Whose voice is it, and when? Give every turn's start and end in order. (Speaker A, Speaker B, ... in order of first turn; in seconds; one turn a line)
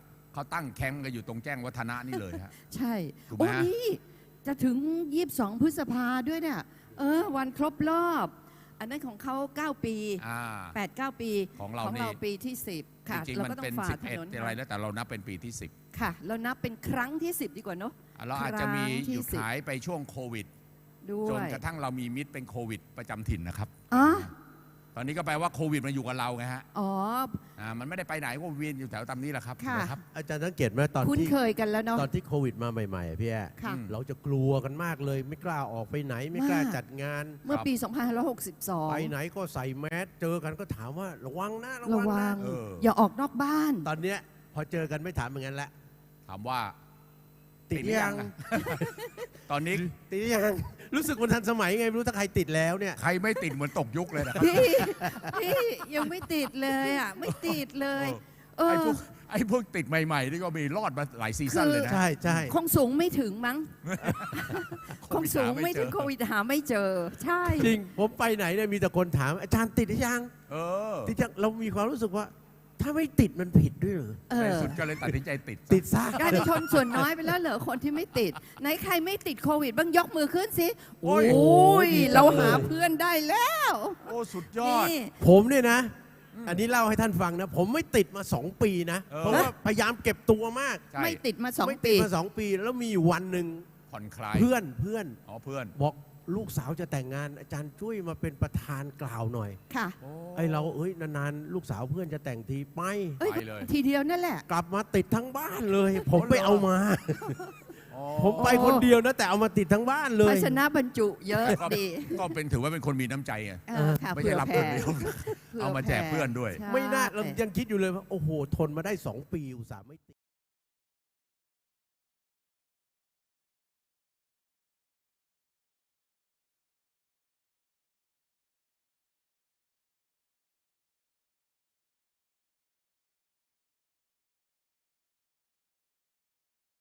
Speaker A: 0.3-2.5
Speaker B: 2.1-14.6
Speaker A: 3.3-3.7
Speaker A: 10.2-10.8
Speaker A: 11.6-12.2
Speaker A: 13.1-15.7
Speaker B: 15.9-19.4
Speaker A: 18.1-20.5
Speaker B: 21.0-21.6
Speaker A: 21.2-24.3
Speaker B: 23.9-24.3
Speaker A: 24.9-26.6
Speaker B: 26.7-27.4
Speaker A: 27.6-30.0
Speaker B: 29.6-30.0
Speaker C: 30.1-31.4
Speaker B: 31.0-32.1
Speaker C: 31.9-37.4
Speaker A: 33.6-33.9
Speaker B: 36.3-36.8
Speaker B: 37.4-39.1
Speaker C: 38.9-42.4
Speaker B: 41.8-43.9
Speaker A: 42.4-42.9
Speaker C: 43.8-45.7
Speaker A: 46.3-46.7
Speaker C: 47.7-49.0
Speaker A: 47.7-48.9
Speaker B: 48.8-49.3
Speaker A: 49.4-49.9
Speaker C: 49.7-53.0
Speaker A: 53.0-54.9
Speaker C: 54.1-55.4
Speaker B: 54.3-59.0
Speaker A: 57.2-62.5
Speaker B: 61.5-67.8
Speaker C: 61.8-62.6
Speaker A: 63.8-66.1
Speaker C: 67.5-70.3
Speaker A: 70.5-71.2
Speaker C: 71.0-74.2
Speaker B: 74.3-74.8
Speaker A: 74.4-75.8
Speaker C: 75.7-77.0
Speaker B: 76.2-85.1
Speaker C: 81.0-82.7
Speaker A: 81.0-81.4
Speaker A: 84.0-85.0
Speaker C: 85.2-90.9
Speaker A: 86.3-86.6
Speaker A: 89.1-89.5
Speaker A: 90.9-91.2
Speaker B: 91.0-92.1
Speaker C: 91.6-93.7
Speaker A: 93.9-94.5
Speaker C: 94.3-95.2
Speaker A: 95.2-95.8
Speaker C: 95.7-99.6
Speaker B: 99.7-100.0
Speaker A: 100.0-100.7
Speaker C: 100.3-103.2
Speaker B: 103.2-104.4
Speaker A: 103.2-103.7
Speaker C: 104.5-107.4
Speaker A: 106.1-106.7
Speaker A: 107.9-108.8
Speaker C: 108.1-110.6
Speaker B: 108.3-108.9
Speaker B: 110.2-112.3
Speaker A: 111.4-116.6
Speaker B: 113.7-117.4
Speaker C: 113.7-114.0
Speaker C: 116.6-120.2